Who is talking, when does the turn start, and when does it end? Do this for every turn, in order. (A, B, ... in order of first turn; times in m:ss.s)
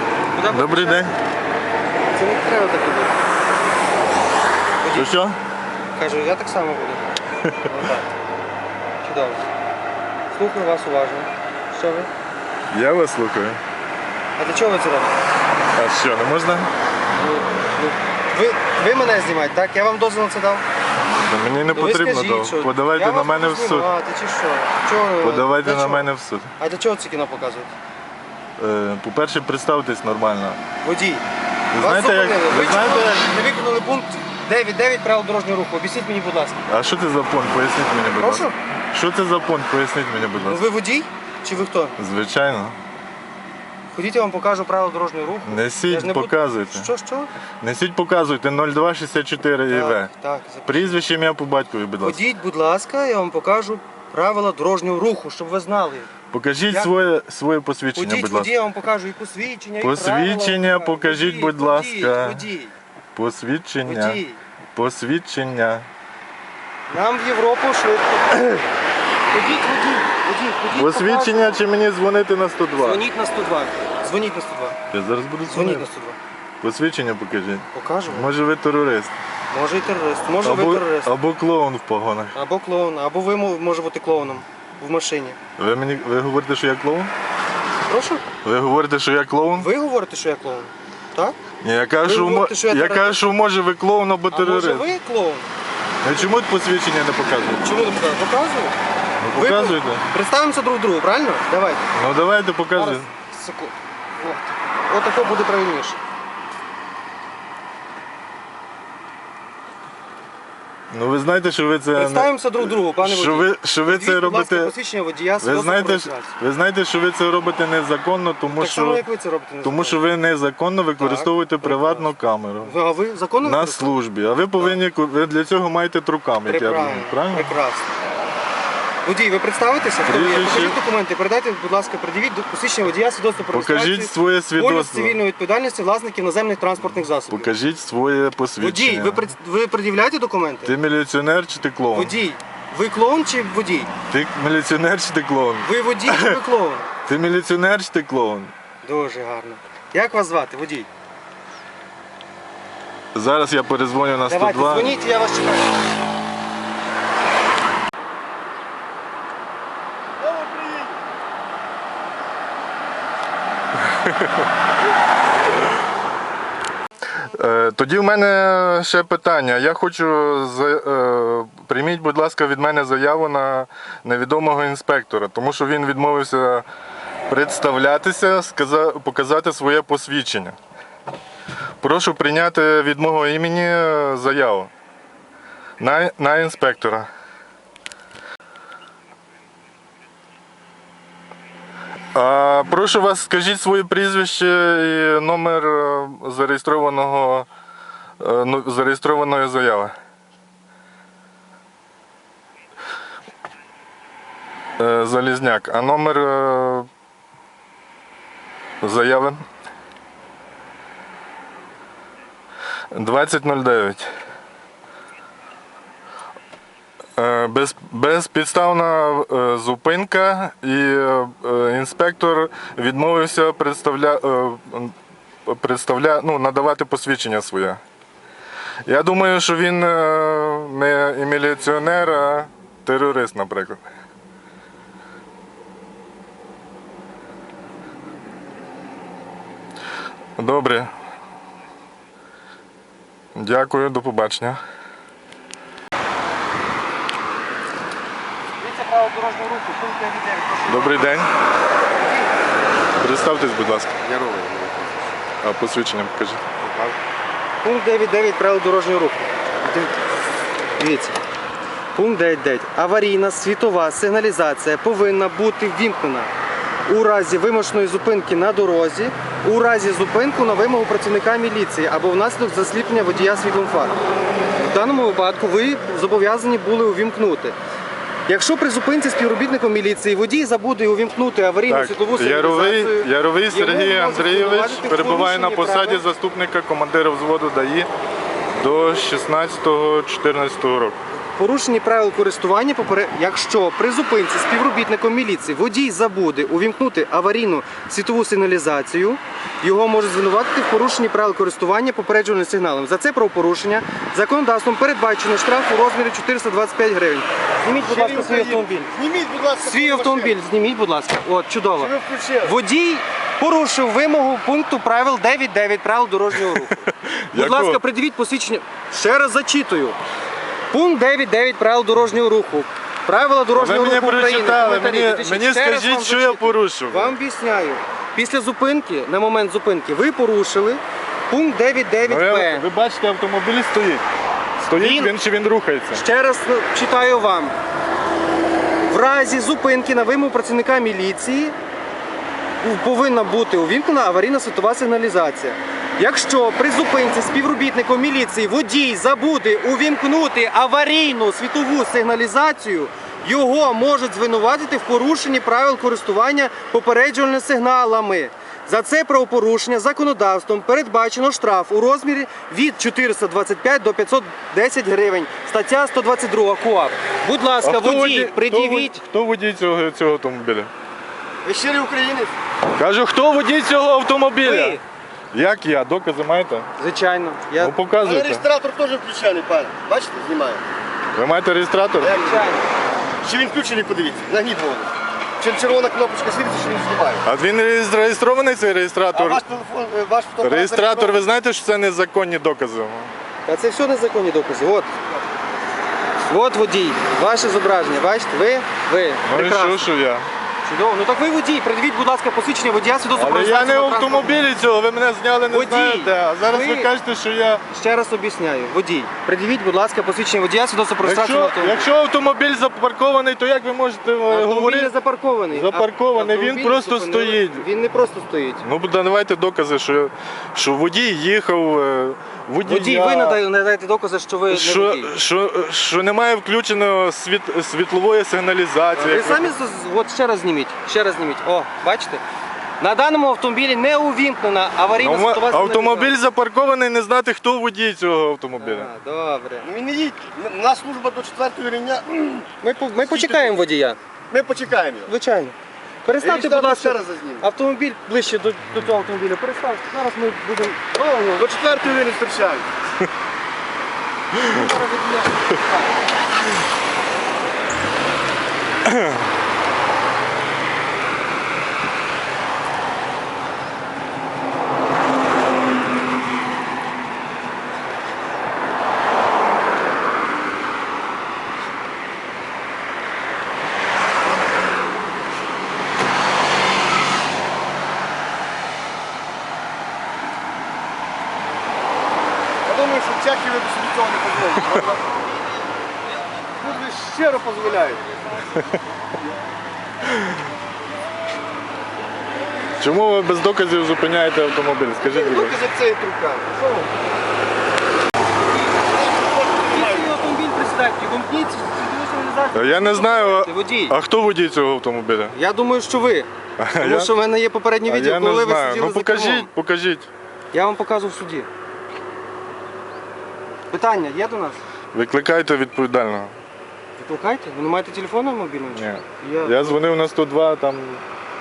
0:00.3-0:01.1 A
0:00.5-0:01.2 B
0:02.1-0:03.2 A
0:04.8-0:05.2 A
0:04.9-0:05.4 B
0:06.0-0:07.1 A
0:07.6-0:08.1 A
0:09.0-0:09.4 A
0:10.3-0:12.1 A
0:12.7-0:13.6 B
0:14.4-0:15.2 A
0:15.8-0:16.7 B
0:17.2-0:20.6 A
0:21.3-0:23.9 B
0:21.7-0:26.1 A
0:25.2-0:26.5 B
0:26.6-0:27.7 A
0:28.6-0:30.6 B
0:30.8-0:31.2 A
0:31.7-0:33.3 B
0:31.8-0:36.7 A
0:36.7-0:40.6 B
0:38.2-0:38.6 A
0:40.4-0:42.0 A
0:42.0-0:42.8 B
0:43.9-0:47.3 A
0:45.5-0:46.9 B
0:47.6-0:50.1 B
0:49.7-0:50.9 A
0:50.7-0:52.3 B
0:52.0-0:56.1 A
0:56.3-0:58.5 B
0:58.0-1:02.8 A
0:59.8-1:02.4 B
1:03.2-1:04.2 B
1:03.8-1:04.4 A
1:04.8-1:05.9 B
1:06.9-1:08.6 A
1:09.3-1:11.6 A
1:10.7-1:13.0 B
1:12.8-1:14.8 A
1:14.9-1:15.9 B
1:15.5-1:16.2 A
1:16.6-1:19.1 B
1:17.7-1:18.3 A
1:19.5-1:21.1 A
1:20.4-1:22.3 B
1:22.3-1:25.4 A
1:25.6-1:27.1 B
1:27.9-1:28.2 A
1:28.4-1:29.7 B
1:29.6-1:31.4 A
1:31.6-1:34.9 B
1:32.0-1:33.2 A
1:34.3-1:35.5 A
1:36.0-1:37.6 B
1:37.6-1:38.8 A
1:39.2-1:40.0 B
1:39.3-1:41.9 A
1:42.0-1:43.1 B
1:42.8-1:46.0 A
1:50.9-1:52.3 B
1:52.0-1:56.3 A
1:53.0-1:54.7 B
1:55.4-1:59.0 B
1:58.5-2:00.0 A
1:59.6-2:02.7 B
2:01.0-2:02.1 A
2:02.6-2:03.9 A
2:03.4-2:07.5 B
2:06.5-2:07.9 A
2:09.0-2:17.5 A
2:10.0-2:10.8 B
2:13.5-2:15.2 B
2:17.3-2:19.2 B
2:18.6-2:20.8 A
2:20.6-2:22.2 B
2:21.9-2:23.9 A
2:24.1-2:26.4 B
2:25.6-2:26.9 A
2:27.1-2:28.5 B
2:28.8-2:30.9 A
2:33.1-2:35.0 B
2:34.3-2:35.7 A
2:40.2-2:40.9 C
2:44.0-2:44.3 B
2:47.2-2:56.7 B
2:57.3-3:00.6 B
3:01.8-3:04.7 B
3:05.8-3:07.1 B
3:12.1-3:17.5 B
3:18.2-3:19.9 B
3:24.8-3:26.9 B
3:28.8-3:29.4 B
3:32.9-3:34.1 B
3:37.2-3:44.9 B
3:45.5-3:47.8 B
3:48.9-3:53.8 B
4:00.4-4:00.9 B
4:03.4-4:04.6 B
4:08.6-4:11.2 A
4:10.7-4:11.3 B
4:11.9-4:12.3 A
4:13.0-4:14.0 B
4:14.0-4:15.1 C
4:15.4-4:16.5 B
4:16.6-4:17.0 C
4:17.6-4:20.0 A
4:20.8-4:21.2 A
4:22.0-4:26.3 A
4:26.9-4:34.0 A
4:34.6-4:37.6 A
4:38.3-4:46.0 A
4:41.7-4:47.9 B
4:48.6-4:51.0 B
4:51.4-5:08.9 A
5:07.7-5:10.4 C
5:09.6-5:20.0 A
5:11.8-5:12.6 C
5:16.5-5:17.8 B
5:20.7-5:32.7 A
5:23.6-5:27.2 B
5:32.0-5:34.0 B
5:34.6-5:36.0 B
5:34.7-5:35.1 A
5:35.9-5:37.6 A
5:38.9-5:41.6 A
5:42.6-6:09.0 A
6:07.6-6:10.7 B
6:11.4-6:12.4 C
6:12.8-6:14.8 B
6:14.4-6:14.8 A
6:15.3-6:16.7 B
6:16.8-6:17.8 A
6:17.6-6:18.4 B
6:18.0-6:20.6 C
6:21.2-6:22.2 B
6:22.0-6:22.6 C
6:22.1-6:22.6 A
6:23.2-6:27.2 C
6:27.2-6:29.4 B
6:29.1-6:31.2 C
6:30.4-6:33.1 B
6:33.5-6:34.9 A
6:36.3-6:39.9 A
6:39.2-6:40.3 B
6:40.6-6:44.4 A
6:43.2-6:47.6 B
6:45.5-6:46.9 A
6:47.7-6:51.9 A
6:51.0-6:54.9 B
6:54.3-6:58.7 A
6:55.5-6:57.6 B
6:58.6-7:03.4 B
7:02.6-7:05.1 A
7:04.5-7:09.5 B
7:09.0-7:12.2 A
7:12.8-7:16.1 A
7:15.0-7:18.9 B
7:18.6-7:19.7 A
7:19.6-7:22.5 C
7:22.6-7:24.0 A
7:23.0-7:23.6 C
7:24.3-7:25.1 C
7:25.1-7:31.6 A
7:26.2-7:27.5 C
7:31.4-7:32.7 C
7:34.4-7:35.9 A
7:38.9-7:39.2 B
8:02.6-8:05.0 C
8:06.6-8:08.0 C
8:12.8-8:15.6 B
8:15.0-8:16.9 C
8:18.8-8:20.1 C
8:19.7-8:24.0 A
8:22.5-8:25.3 B
8:25.3-8:29.5 A
8:26.6-8:27.1 B
8:27.8-8:30.1 B
8:30.5-8:31.5 A
8:33.7-8:34.6 A
8:34.9-8:36.3 B
8:37.0-8:39.8 A
8:38.7-8:41.0 B